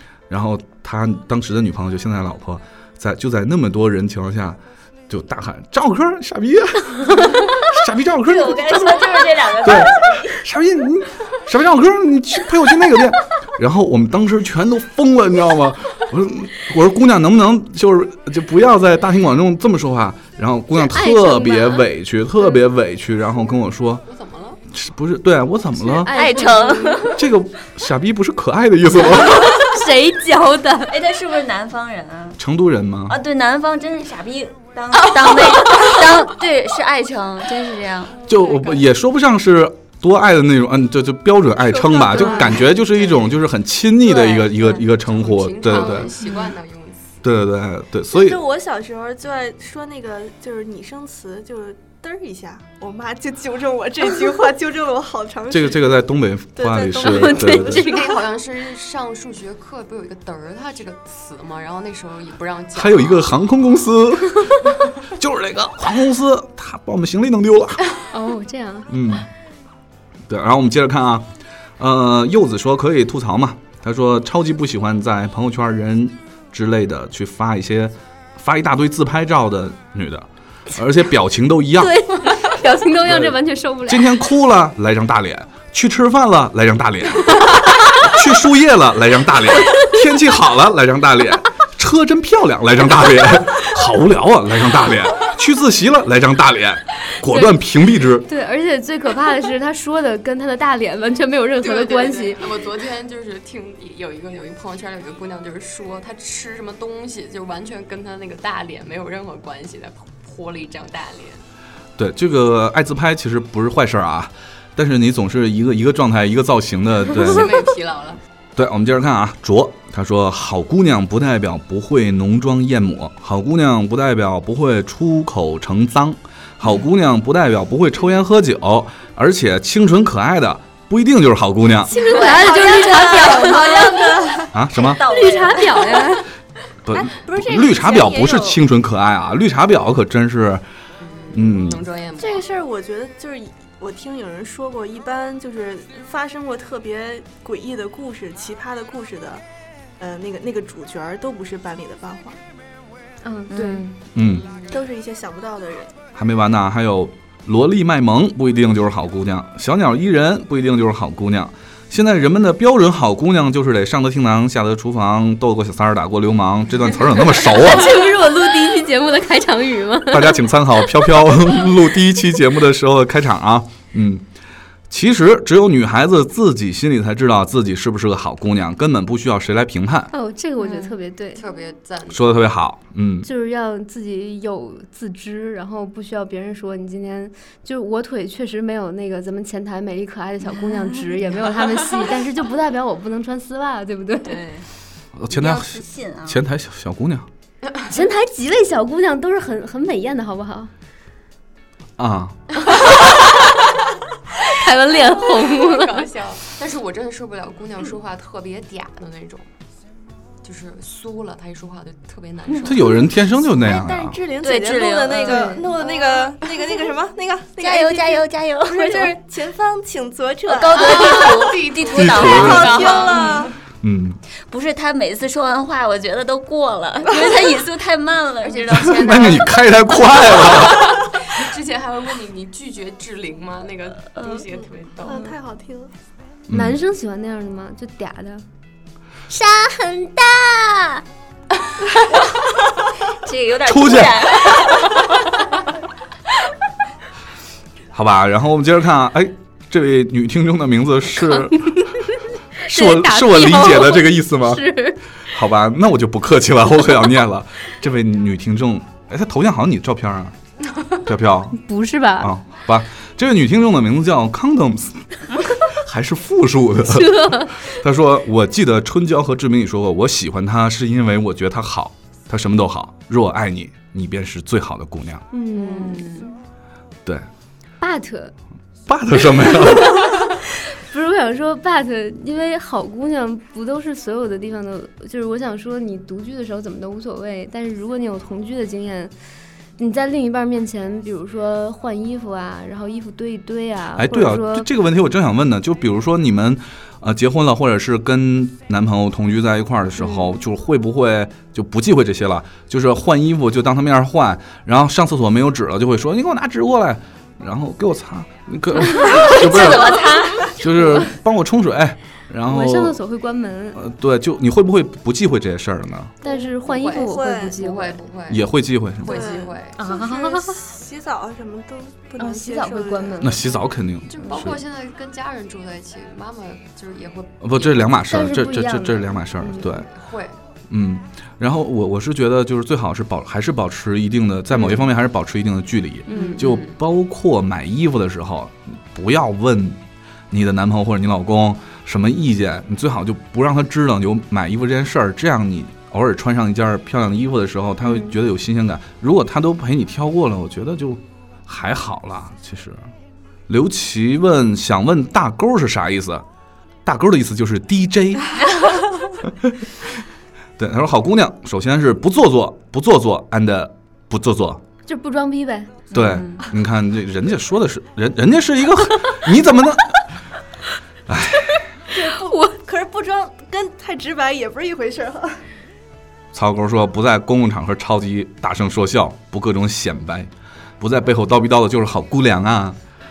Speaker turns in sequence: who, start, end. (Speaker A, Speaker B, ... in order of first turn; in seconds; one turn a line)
Speaker A: 0.3-9.1
Speaker B: 8.2-10.4
Speaker A: 9.6-24.0
Speaker C: 20.7-21.9
Speaker D: 24.1-24.6
Speaker A: 24.7-26.2
Speaker C: 25.8-27.2
Speaker B: 26.1-27.2
Speaker A: 27.1-29.6
Speaker C: 29.6-31.0
Speaker B: 30.9-32.4
Speaker A: 32.4-33.2
Speaker B: 33.1-38.2
Speaker A: 38.3-46.1
Speaker D: 38.3-38.9
Speaker B: 41.9-42.5
Speaker B: 44.0-44.9
Speaker D: 45.0-47.2
Speaker C: 45.7-46.0
Speaker A: 47.2-48.4
Speaker E: 48.1-56.0
Speaker A: 55.5-57.9
Speaker E: 56.5-58.1
Speaker C: 57.0-58.1
Speaker D: 57.8-63.4
Speaker A: 62.7-67.8
Speaker C: 68.1-68.9
Speaker A: 68.9-69.3
Speaker A: 70.3-71.3
Speaker A: 71.8-82.1
Speaker C: 81.8-84.2
Speaker A: 83.0-98.3
Speaker C: 97.3-97.6
Speaker C: 98.2-102.4
Speaker D: 101.6-111.4
Speaker A: 112.0-117.5
Speaker D: 117.1-118.2
Speaker A: 118.6-132.0
Speaker C: 131.9-134.2
Speaker E: 132.1-134.4
Speaker B: 132.1-136.2
Speaker A: 134.5-135.0
Speaker C: 135.0-136.3
Speaker A: 136.9-140.6
Speaker E: 136.9-138.4
Speaker B: 137.4-138.5
Speaker D: 141.0-142.5
Speaker A: 141.3-141.8
Speaker E: 142.2-149.4
Speaker E: 150.0-152.4
Speaker C: 153.2-153.9
Speaker B: 153.5-154.0
Speaker A: 154.1-154.5
Speaker D: 154.2-154.8
Speaker E: 154.7-155.9
Speaker A: 156.1-168.0
Speaker C: 167.3-171.6
Speaker A: 170.1-174.2
Speaker A: 174.9-180.1
Speaker C: 180.1-181.4
Speaker D: 181.3-182.4
Speaker A: 182.1-183.3
Speaker C: 183.2-194.4
Speaker B: 194.3-194.6
Speaker A: 195.2-197.3
Speaker B: 195.3-196.4
Speaker C: 197.9-200.7
Speaker A: 202.0-202.4
Speaker C: 204.5-206.0
Speaker D: 205.0-209.5
Speaker D: 210.4-213.1
Speaker A: 212.6-214.2
Speaker E: 213.5-221.6
Speaker B: 214.4-216.5
Speaker C: 215.2-215.6
Speaker B: 217.6-219.2
Speaker B: 220.5-223.4
Speaker D: 220.7-223.5
Speaker A: 221.9-222.8
Speaker E: 222.1-223.5
Speaker A: 223.8-224.2
Speaker B: 224.5-229.4
Speaker D: 228.4-229.5
Speaker A: 228.7-231.1
Speaker D: 230.3-235.4
Speaker B: 234.1-234.4
Speaker E: 235.0-235.9
Speaker A: 236.5-236.8
Speaker C: 236.5-238.4
Speaker B: 239.3-241.0
Speaker B: 242.1-242.5
Speaker B: 243.0-245.1
Speaker A: 243.6-244.5
Speaker A: 247.9-251.9
Speaker C: 252.6-255.0
Speaker A: 252.7-254.7
Speaker A: 255.3-260.4
Speaker A: 261.0-261.6
Speaker C: 261.6-262.3
Speaker A: 262.2-265.1
Speaker A: 265.6-275.2
Speaker C: 266.9-267.6
Speaker C: 275.3-276.3
Speaker D: 275.7-276.2
Speaker C: 277.8-278.3
Speaker A: 278.9-280.2
Speaker C: 280.7-289.1
Speaker C: 289.8-294.7
Speaker A: 294.0-313.0
Speaker B: 309.1-310.6
Speaker C: 312.5-313.8
Speaker A: 313.8-316.1
Speaker C: 316.2-318.0
Speaker E: 316.3-317.6
Speaker D: 316.7-319.8
Speaker A: 318.3-319.2
Speaker E: 319.0-323.3
Speaker C: 319.8-320.6
Speaker C: 322.2-323.4
Speaker A: 323.2-324.6
Speaker D: 324.1-328.0
Speaker A: 327.4-329.9
Speaker C: 328.1-329.7
Speaker D: 329.4-330.4
Speaker A: 330.7-352.8
Speaker C: 336.1-336.4
Speaker D: 336.1-336.8
Speaker C: 347.9-348.2
Speaker A: 353.5-356.2
Speaker A: 356.9-358.4
Speaker A: 359.2-359.5
Speaker A: 360.6-364.6
Speaker C: 364.9-365.8
Speaker A: 365.9-370.0
Speaker B: 365.9-366.4
Speaker A: 371.1-371.6
Speaker E: 371.9-375.4
Speaker A: 376.3-382.8